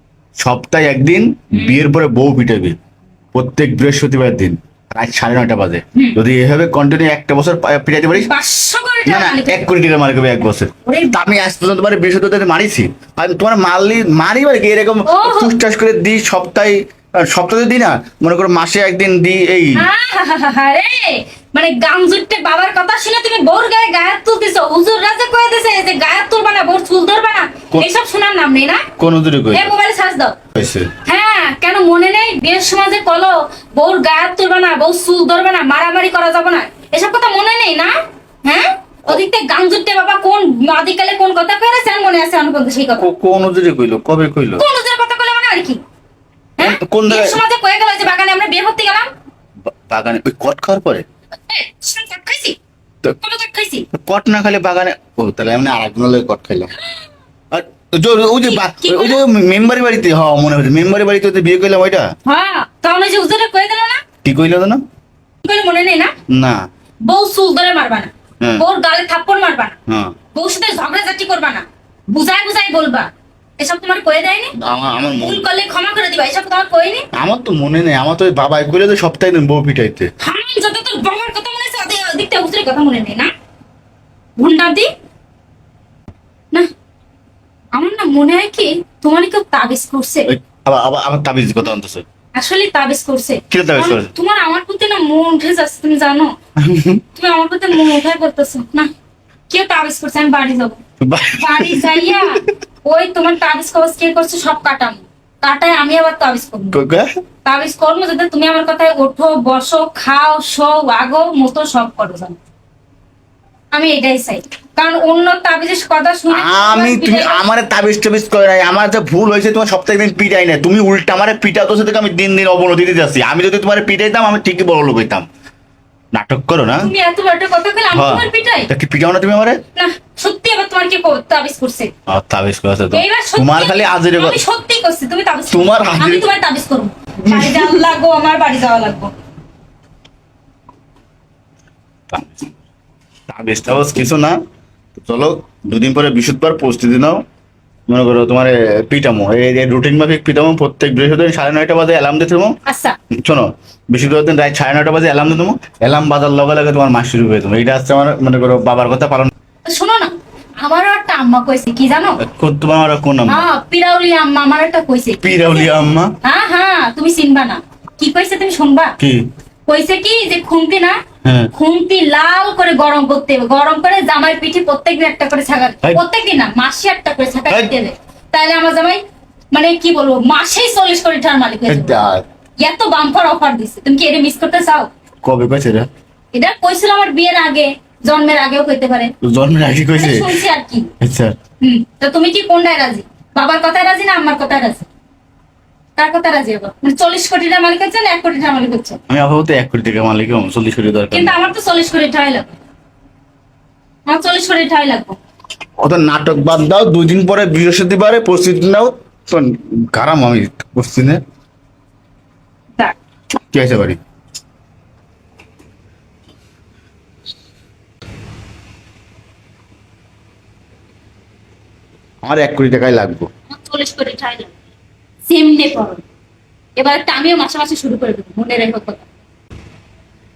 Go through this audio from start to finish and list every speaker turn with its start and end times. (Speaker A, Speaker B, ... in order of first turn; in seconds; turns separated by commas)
Speaker A: 0.4-2.8, Speaker B: 1.5-1.8, Speaker A: 3.3-8.3, Speaker B: 8.2-9.7, Speaker A: 9.1-19.9, Speaker B: 10.8-11.2, Speaker B: 15.1-15.5, Speaker B: 19.7-28.9, Speaker A: 29.0-29.7, Speaker B: 29.5-30.4, Speaker A: 30.6-30.9, Speaker B: 31.0-37.9, Speaker B: 38.4-43.1, Speaker A: 43.0-44.6, Speaker B: 44.6-45.8, Speaker B: 46.6-49.1, Speaker A: 46.6-47.4, Speaker A: 49.9-51.1, Speaker B: 51.5-52.6, Speaker B: 53.2-53.9, Speaker A: 53.9-56.7, Speaker B: 56.8-57.1, Speaker A: 57.5-62.0, Speaker B: 58.4-59.2, Speaker B: 62.3-64.1, Speaker A: 64.2-64.8, Speaker B: 65.4-66.2, Speaker A: 66.3-66.6, Speaker B: 67.0-69.8, Speaker A: 68.4-68.7, Speaker A: 69.9-70.2, Speaker B: 70.3-74.5, Speaker A: 74.6-75.5, Speaker B: 75.1-77.1, Speaker A: 77.2-80.1, Speaker B: 80.2-83.3, Speaker B: 84.4-84.9, Speaker B: 87.8-90.3, Speaker A: 90.3-92.0, Speaker B: 92.3-96.3, Speaker A: 93.5-94.1, Speaker A: 96.6-97.0, Speaker B: 97.2-98.9, Speaker A: 97.7-98.0, Speaker B: 99.5-100.8, Speaker A: 101.0-102.5, Speaker B: 101.3-106.8, Speaker A: 106.7-107.1, Speaker B: 107.5-112.4, Speaker B: 113.7-117.4, Speaker A: 116.3-125.3, Speaker A: 126.1-126.9, Speaker B: 126.8-128.7, Speaker A: 127.9-129.6, Speaker B: 129.8-131.9, Speaker A: 132.1-134.4, Speaker B: 132.9-139.2, Speaker A: 135.5-136.3, Speaker A: 137.2-137.8, Speaker A: 142.1-142.5, Speaker A: 143.3-144.4, Speaker A: 145.0-147.2, Speaker A: 147.9-152.5, Speaker B: 152.7-153.0, Speaker A: 153.2-159.3, Speaker B: 159.7-162.2, Speaker A: 162.2-163.5, Speaker B: 163.3-165.7, Speaker A: 165.2-166.1, Speaker B: 166.2-168.9, Speaker B: 169.7-171.0, Speaker A: 171.2-171.5, Speaker B: 171.5-179.0, Speaker A: 177.5-177.8, Speaker B: 179.5-182.0, Speaker A: 181.7-182.2, Speaker B: 182.6-184.9, Speaker A: 185.2-185.9, Speaker B: 186.3-189.1, Speaker A: 189.2-190.4, Speaker B: 189.9-190.9, Speaker A: 191.0-191.3, Speaker B: 191.6-194.8, Speaker B: 196.0-199.0, Speaker A: 199.1-201.4, Speaker B: 201.1-202.5, Speaker B: 204.1-205.2, Speaker A: 205.8-211.2, Speaker A: 213.5-214.0, Speaker A: 222.2-223.3, Speaker B: 223.5-224.5, Speaker B: 225.3-226.0, Speaker B: 226.8-229.1